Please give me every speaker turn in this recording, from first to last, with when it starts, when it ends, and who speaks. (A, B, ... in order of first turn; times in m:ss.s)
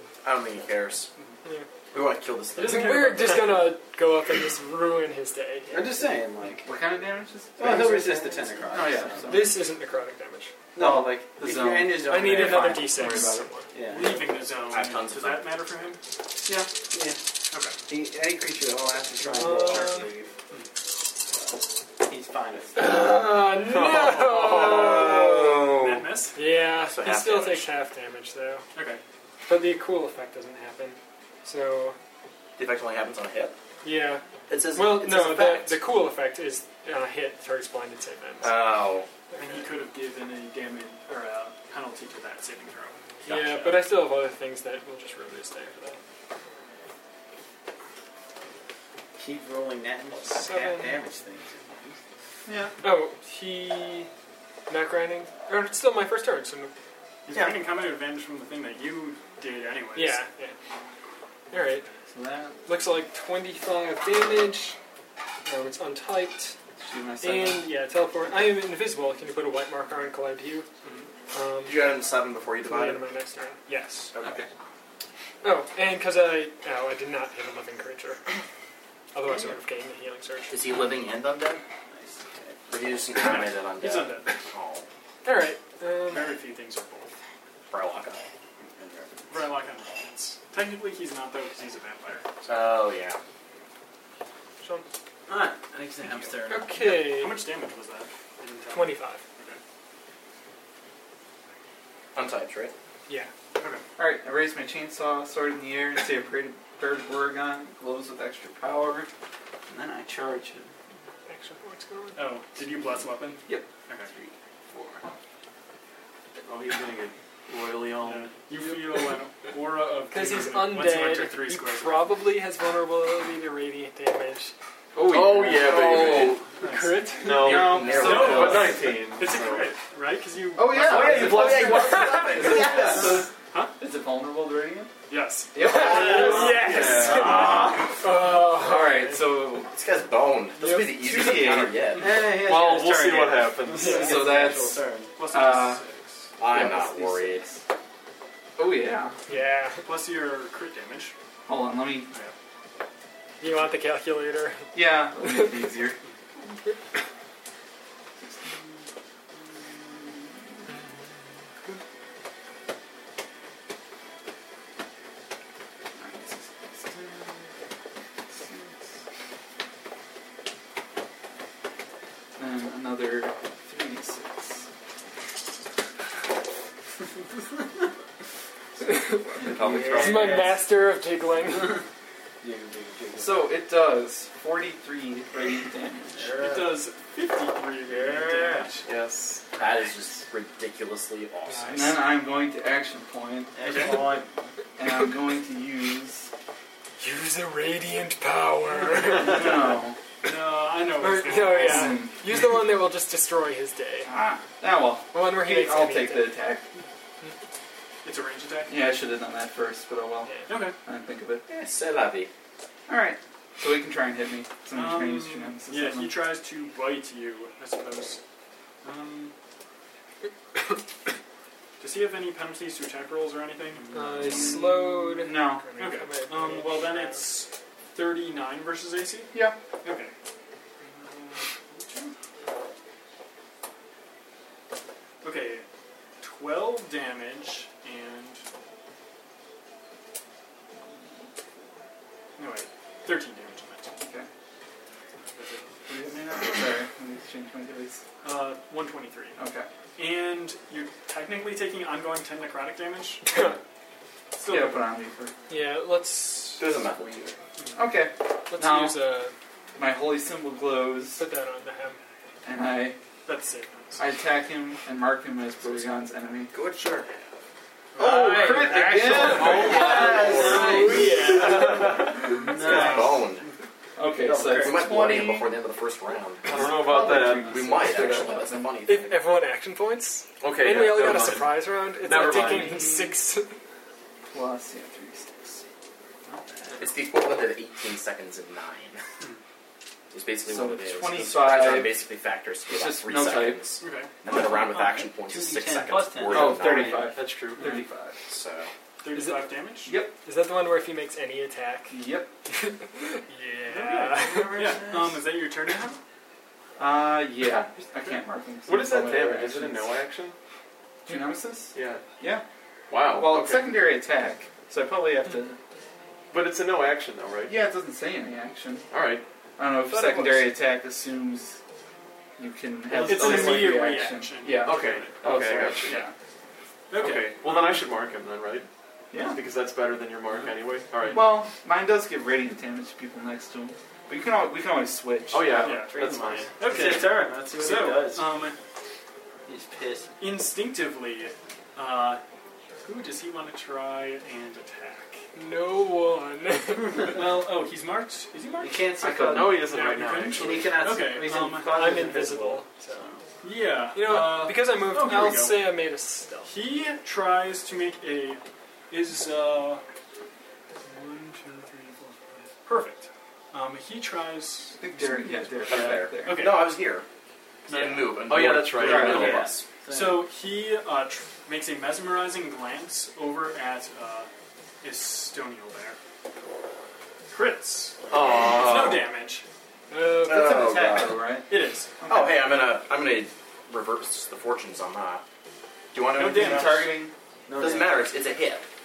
0:00.2-0:01.1 A
0:01.9-0:03.6 A
0:02.6-0:03.0 B
0:02.6-0:06.1 C
0:05.7-0:06.7 D
0:06.6-0:09.6 E
0:07.6-0:09.6 D
0:09.3-0:10.5 C
0:10.8-0:12.9 D
0:10.8-0:13.5 E
0:12.0-0:13.7 C
0:13.7-0:14.4 D
0:13.9-0:16.0 B
0:14.7-0:15.5 A
0:16.9-0:17.2 D
0:17.9-0:20.3 D
0:19.3-0:20.1 C
0:21.3-0:23.3 D
0:22.8-0:25.7 C
0:23.6-0:24.9 F
0:24.7-0:25.2 A
0:24.7-0:26.0 E
0:25.8-0:26.4 B
0:26.4-0:28.6 C
0:26.8-0:27.7 A
0:28.8-0:29.0 B
0:29.5-0:32.0 C
0:32.6-0:33.6 A
0:33.8-0:34.2 C
0:34.5-0:35.8 A
0:34.7-0:38.6 C
0:38.4-0:39.1 A
0:39.3-0:39.7 C
0:39.4-0:43.0 B
0:43.2-0:43.8 A
0:43.3-0:46.0 C
0:49.2-0:52.0 D
0:50.2-0:51.0 C
0:52.5-0:52.7 E
0:52.8-0:54.1 C
0:54.7-0:56.7 C
0:57.3-1:00.2 B
1:00.0-1:00.6 C
1:01.5-1:01.9 C
1:02.2-1:02.5 E
1:02.7-1:04.8 C
1:05.5-1:06.6 C
1:06.8-1:07.7 E
1:07.2-1:10.7 C
1:11.3-1:12.0 C
1:11.7-1:13.0 A
1:12.6-1:14.1 C
1:14.1-1:14.4 A
1:15.4-1:18.2 C
1:19.1-1:20.8 C
1:20.5-1:21.6 A
1:21.9-1:22.6 D
1:22.7-1:24.9 A
1:23.2-1:24.3 B
1:25.2-1:26.4 C
1:26.1-1:27.1 B
1:27.7-1:28.2 A
1:28.6-1:29.5 D
1:29.3-1:32.2 B
1:32.4-1:33.2 A
1:35.3-1:36.7 D
1:36.5-1:37.4 C
1:36.8-1:39.6 B
1:38.7-1:39.2 C
1:42.2-1:42.7 A
1:44.0-1:49.1 E
1:49.7-1:50.7 D
1:51.2-1:52.4 C
1:52.2-1:54.1 B
1:56.4-1:58.3 F
1:58.0-2:02.0 B
1:58.5-1:59.0 C
2:00.1-2:04.5 C
2:05.0-2:06.3 E
2:05.1-2:06.4 F
2:05.5-2:06.4 A
2:06.6-2:07.6 C
2:06.6-2:11.4 B
2:07.2-2:09.7 F
2:07.3-2:08.8 A
2:07.4-2:08.8 E
2:10.6-2:14.9 E
2:10.9-2:11.3 F
2:10.9-2:13.3 A
2:15.1-2:16.7 B
2:15.6-2:19.7 E
2:15.6-2:19.1 C
2:15.9-2:16.7 D
2:16.7-2:17.4 F
2:19.7-2:22.3 A
2:20.6-2:21.4 C
2:20.8-2:22.0 E
2:22.0-2:25.1 D
2:22.3-2:24.1 F
2:23.7-2:24.0 B
2:23.8-2:24.1 C
2:24.0-2:24.8 E
2:25.2-2:26.2 B
2:25.3-2:25.8 E
2:26.4-2:27.4 A
2:26.5-2:27.6 E
2:28.6-2:29.2 E
2:29.3-2:29.8 C
2:29.8-2:31.1 B
2:31.5-2:32.1 E
2:33.4-2:34.6 C
2:34.7-2:36.0 E
2:35.2-2:35.6 C
2:38.3-2:38.8 E
2:39.4-2:40.6 E
2:46.0-2:47.5 E
2:48.3-2:48.9 E
2:52.4-2:54.7 E
2:58.8-2:59.5 E
2:58.9-2:59.3 C
2:59.4-3:00.5 A
2:59.5-3:00.6 D
2:59.9-3:01.8 C
3:01.4-3:01.7 D
3:02.4-3:03.4 D
3:03.2-3:06.3 E
3:06.1-3:06.8 D
3:06.4-3:08.8 B
3:07.9-3:08.7 D
3:08.8-3:09.4 F
3:09.5-3:12.0 A
3:11.5-3:12.0 C
3:11.7-3:14.2 E
3:13.6-3:14.3 D
3:13.7-3:13.9 B
3:14.8-3:16.3 E
3:17.0-3:19.6 C
3:19.2-3:20.0 E
3:20.2-3:22.0 B
3:21.0-3:24.1 C
3:21.5-3:22.3 E
3:24.1-3:26.7 E
3:25.1-3:26.4 C
3:28.0-3:28.8 B
3:28.7-3:30.3 E
3:30.3-3:30.6 C
3:30.5-3:30.8 B
3:30.8-3:31.4 E
3:31.5-3:32.3 A
3:32.9-3:36.3 E
3:34.7-3:38.2 B
3:38.8-3:39.3 B
3:41.8-3:44.6 B
3:43.9-3:47.3 C
3:44.2-3:45.6 E
3:45.8-3:49.3 B
3:49.8-3:50.1 B
3:50.8-3:52.1 B
3:55.2-3:55.6 B
3:56.2-3:58.4 B
4:02.4-4:03.9 B
4:04.0-4:04.3 E
4:05.4-4:05.7 B
4:05.9-4:08.0 E
4:08.2-4:09.4 B
4:09.4-4:09.7 E
4:10.0-4:13.2 B
4:13.3-4:13.6 C
4:14.4-4:14.9 B
4:14.5-4:15.3 E
4:15.5-4:16.8 C
4:16.6-4:17.3 A
4:17.8-4:19.0 E
4:18.5-4:19.3 C
4:19.8-4:21.2 E
4:21.2-4:22.0 C
4:22.4-4:23.0 E
4:23.3-4:24.1 B
4:24.0-4:26.5 E
4:26.5-4:27.0 A
4:28.0-4:32.5 C
4:28.0-4:32.9 E
4:28.0-4:28.3 B
4:29.1-4:31.5 D
4:30.6-4:30.9 A
4:32.5-4:33.3 D
4:32.5-4:33.4 A
4:32.7-4:33.1 B
4:34.0-4:35.5 E
4:34.2-4:34.9 D
4:34.5-4:39.2 A
4:36.5-4:37.7 F
4:36.5-4:38.8 E
4:38.9-4:43.5 C
4:40.4-4:42.8 F
4:40.4-4:41.4 A
4:42.1-4:43.2 E
4:44.3-4:45.6 E
4:46.3-4:46.7 E
4:46.8-4:49.0 A
4:50.1-4:57.1 A
4:50.5-4:52.0 E
4:52.7-4:53.8 E
4:53.8-4:55.0 B
4:54.7-4:57.0 D
4:56.3-4:58.2 E
4:56.5-4:57.6 F
4:57.6-4:57.8 B
4:58.3-4:58.7 A
4:59.0-4:59.9 B
4:59.1-4:59.6 C
4:59.9-5:00.1 E
5:00.2-5:04.8 C
5:01.9-5:02.3 E
5:03.7-5:06.0 B
5:04.1-5:05.2 D
5:06.8-5:10.0 E
5:08.7-5:10.4 F
5:11.1-5:12.4 E
5:11.7-5:12.0 F
5:12.9-5:13.7 F
5:13.1-5:15.6 E
5:16.3-5:17.5 F
5:17.5-5:18.9 E
5:18.9-5:19.2 F
5:19.6-5:21.6 E
5:20.0-5:20.5 F
5:22.4-5:26.1 E
5:23.0-5:25.2 B
5:23.2-5:23.6 D
5:24.6-5:26.0 F
5:26.9-5:27.9 B
5:27.0-5:28.7 F
5:29.1-5:29.4 E
5:29.2-5:31.3 F
5:31.1-5:35.8 E
5:35.3-5:37.1 F
5:35.5-5:38.3 D
5:35.6-5:38.6 B
5:39.5-5:40.1 D
5:40.2-5:42.2 B
5:42.8-5:45.2 B
5:45.4-5:47.2 C
5:47.1-5:48.8 B
5:48.6-5:49.7 D
5:49.0-5:49.7 E
5:49.3-5:50.8 F
5:49.7-5:52.1 B
5:49.7-5:50.0 C
5:50.3-5:53.2 D
5:51.6-5:53.0 C
5:53.4-5:55.7 B
5:53.9-5:56.5 C
5:56.5-5:59.8 B
6:00.8-6:05.7 B
6:04.8-6:06.5 E
6:05.7-6:07.0 A
6:06.2-6:06.7 B
6:07.7-6:08.2 B
6:07.7-6:09.7 A
6:08.3-6:09.4 F
6:08.8-6:09.4 E
6:08.8-6:10.3 D
6:09.9-6:14.3 B
6:14.8-6:16.0 B
6:17.3-6:19.4 B
6:18.1-6:19.1 F
6:20.2-6:21.2 A
6:20.2-6:21.5 E
6:21.5-6:21.9 B
6:22.0-6:22.4 E
6:22.1-6:25.2 A
6:25.9-6:27.0 A
6:26.2-6:26.9 B
6:26.2-6:27.1 E
6:27.5-6:27.9 D
6:27.6-6:28.6 A